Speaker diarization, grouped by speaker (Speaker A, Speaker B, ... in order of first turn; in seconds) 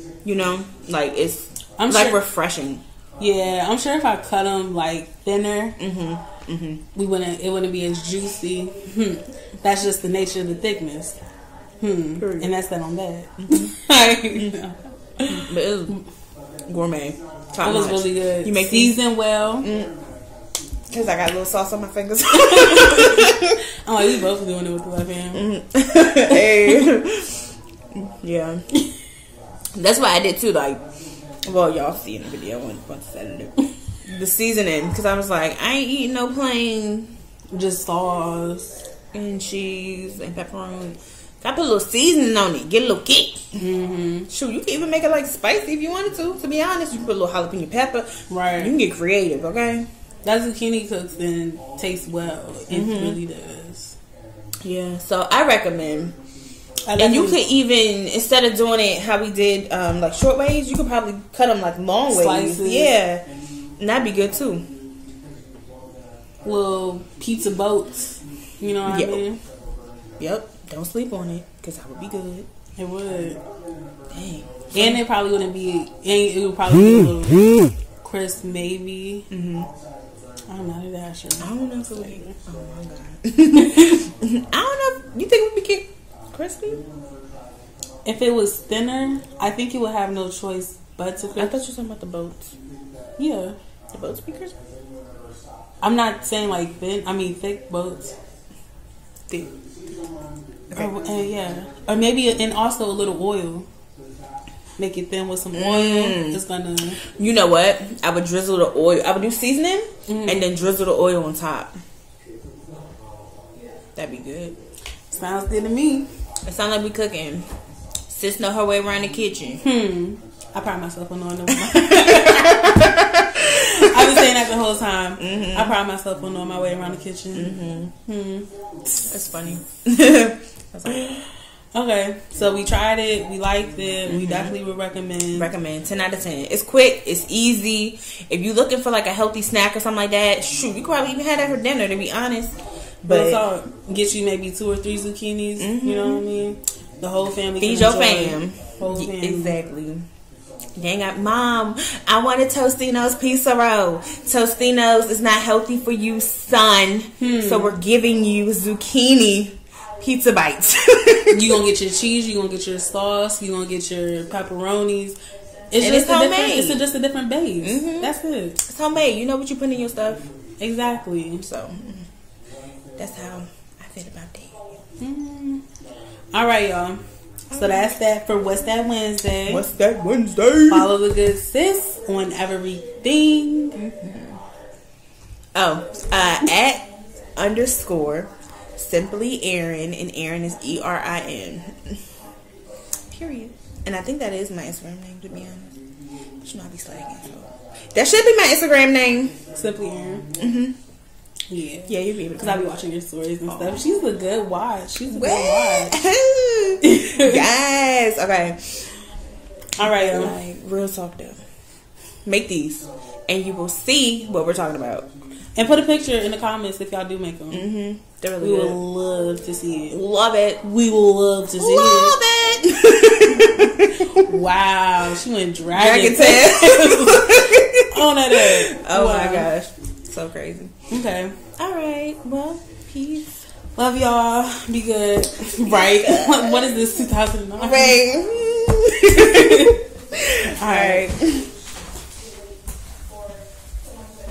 Speaker A: 0.2-2.8, 5.8-6.8, 12.2-12.5, 15.3-15.9, 16.7-19.0, 19.6-19.9, 20.9-23.4, 25.4-27.4, 27.9-28.6, 29.7-30.8, 31.4-33.5, 34.0-37.1, 39.1-43.6, 44.3-49.9, 52.7-53.2, 54.6-56.2, 57.0-63.2, 63.8-64.7, 68.8-69.2, 70.2-72.5, 74.1-75.0, 79.3-79.7, 81.4-86.8, 91.3-92.5, 93.9-94.5, 100.7-101.0, 105.5-106.4, 107.1-111.8, 114.0-114.5, 116.4-117.5, 118.1-119.6, 121.8-122.9, 125.2-125.7, 127.3-127.9, 129.1-131.2, 134.1-134.5, 135.3-143.4, 145.6-146.2, 147.6-150.0, 150.8-161.6, 165.8-166.8, 167.6-170.3, 171.4-172.0, 173.0-174.6, 177.5-178.0, 179.5-180.9, 183.8-184.4, 185.5-192.0, 193.1-195.8, 196.4-199.4, 200.4-200.8, 201.9-202.7, 203.5-203.8, 205.1-208.8, 209.8-211.4, 212.2-215.1, 217.5-218.8, 219.9-220.6, 221.6-224.2, 225.7-230.7, 231.6-233.5, 235.7-236.9, 237.6-241.5
Speaker B: 1.8-2.2, 3.2-5.8, 6.9-11.2, 11.8-16.0, 17.6-19.7, 22.4-25.5, 26.3-26.8, 37.5-38.8, 43.6-44.3, 48.3-48.8, 50.2-54.0, 56.9-57.4, 62.1-62.9, 66.4-69.4, 72.8-73.4, 74.7-79.3, 80.5-82.4, 88.0-91.6, 93.2-93.5, 95.8-98.2, 100.7-103.7, 104.8-107.0, 110.1-110.5, 115.1-116.1, 119.6-129.2, 131.7-135.5, 143.1-149.6, 157.2-157.8, 161.3-165.2, 165.7-168.6, 170.6-171.5, 175.0-175.6, 176.3-179.7, 180.7-183.8, 199.5-200.3, 201.5-206.0, 206.8-207.4, 209.8-210.4, 215.5-217.7, 218.4-220.0, 220.6-222.2, 223.6-229.5, 230.9-231.3, 233.8-238.0, 239.2-239.8, 240.6-241.1